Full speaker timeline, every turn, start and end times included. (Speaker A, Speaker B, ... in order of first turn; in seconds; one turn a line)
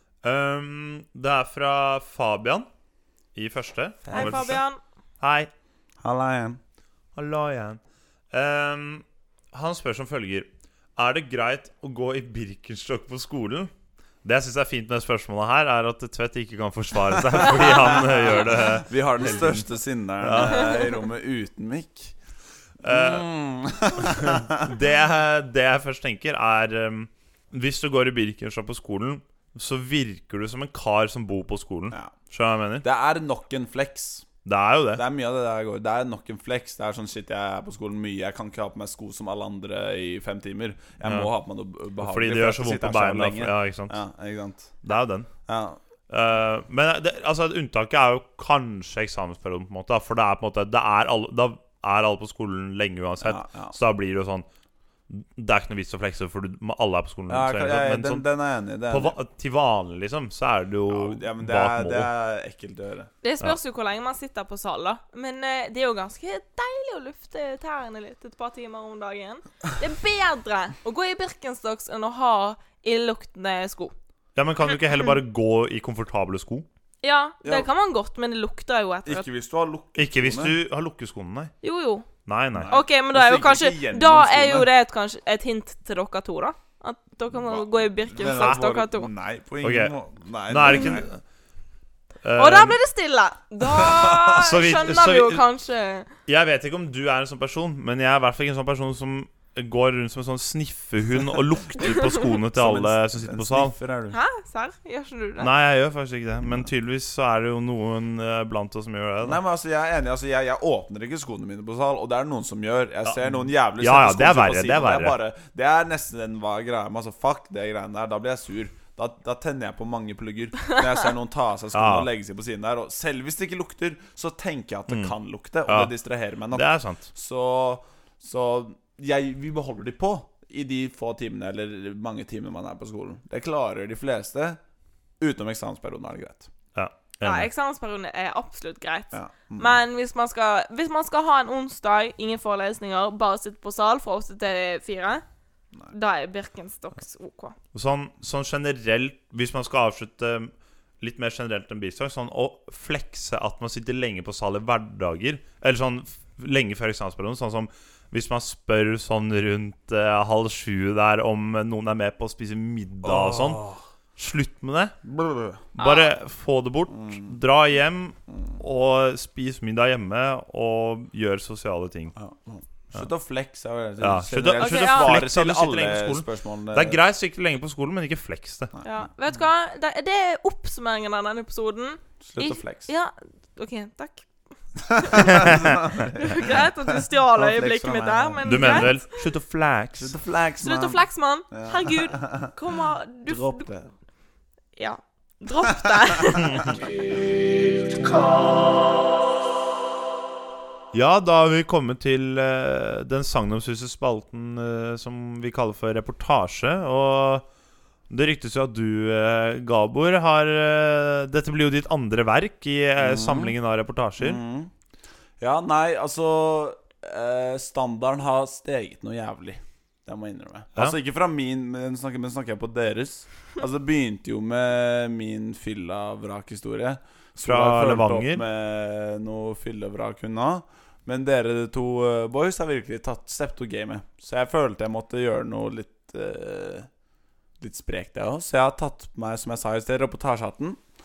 Speaker A: 0.2-2.7
Speaker A: 3.3-4.6
Speaker B: 4.0-4.6
Speaker C: 4.1-4.8
Speaker A: 5.2-5.5
Speaker B: 6.0-6.6
Speaker A: 7.1-7.8
Speaker A: 8.3-13.7
Speaker A: 14.2-19.7
Speaker B: 17.8-22.1
Speaker A: 20.2-20.8
Speaker A: 22.8-23.3
Speaker B: 22.8-24.7
Speaker A: 24.0-32.9
Speaker B: 32.8-34.2
Speaker A: 34.4-35.0
Speaker B: 34.9-44.7
Speaker A: 41.0-41.3
Speaker A: 42.0-44.0
Speaker A: 44.8-45.3
Speaker B: 45.5-45.8
Speaker A: 46.1-54.5
Speaker B: 53.2-53.7
Speaker A: 55.1-58.2
Speaker B: 57.3-59.1
Speaker A: 58.9-62.1
Speaker B: 60.9-63.1
Speaker C: 63.2-73.9
Speaker A: 74.3-76.7
Speaker C: 77.0-79.3
Speaker B: 77.4-77.7
Speaker B: 79.0-80.5
Speaker A: 80.0-81.5
Speaker C: 81.6-82.1
Speaker A: 82.2-82.8
Speaker B: 82.5-84.7
Speaker C: 82.7-89.1
Speaker B: 87.4-91.1
Speaker A: 88.2-88.6
Speaker A: 89.6-90.0
Speaker A: 90.5-91.2
Speaker C: 90.7-91.0
Speaker A: 92.2-92.8
Speaker C: 92.3-96.1
Speaker B: 93.8-94.3
Speaker A: 94.4-95.4
Speaker A: 96.3-103.7
Speaker B: 102.5-104.2
Speaker C: 104.1-105.5
Speaker A: 105.4-109.4
Speaker B: 109.2-134.6
Speaker A: 113.0-115.2
Speaker A: 121.7-122.1
Speaker A: 125.7-125.9
Speaker A: 126.5-127.1
Speaker B: 135.2-136.5
Speaker A: 136.7-137.5
Speaker C: 137.2-145.2
Speaker B: 139.1-139.8
Speaker C: 145.9-147.5
Speaker A: 147.7-164.9
Speaker B: 163.1-163.8
Speaker B: 165.1-165.6
Speaker A: 165.8-172.1
Speaker C: 165.8-166.1
Speaker B: 167.0-167.2
Speaker B: 172.2-177.0
Speaker A: 174.0-178.7
Speaker C: 174.6-175.1
Speaker C: 178.8-184.2
Speaker B: 182.2-182.9
Speaker C: 184.8-189.2
Speaker B: 184.9-188.9
Speaker A: 188.4-190.1
Speaker B: 190.0-192.5
Speaker C: 190.6-193.7
Speaker B: 193.3-193.9
Speaker C: 194.8-196.8
Speaker A: 200.9-207.4
Speaker A: 208.1-214.4
Speaker B: 213.0-213.5
Speaker B: 214.2-214.7
Speaker B: 215.4-236.9
Speaker A: 227.4-228.4
Speaker B: 237.6-240.8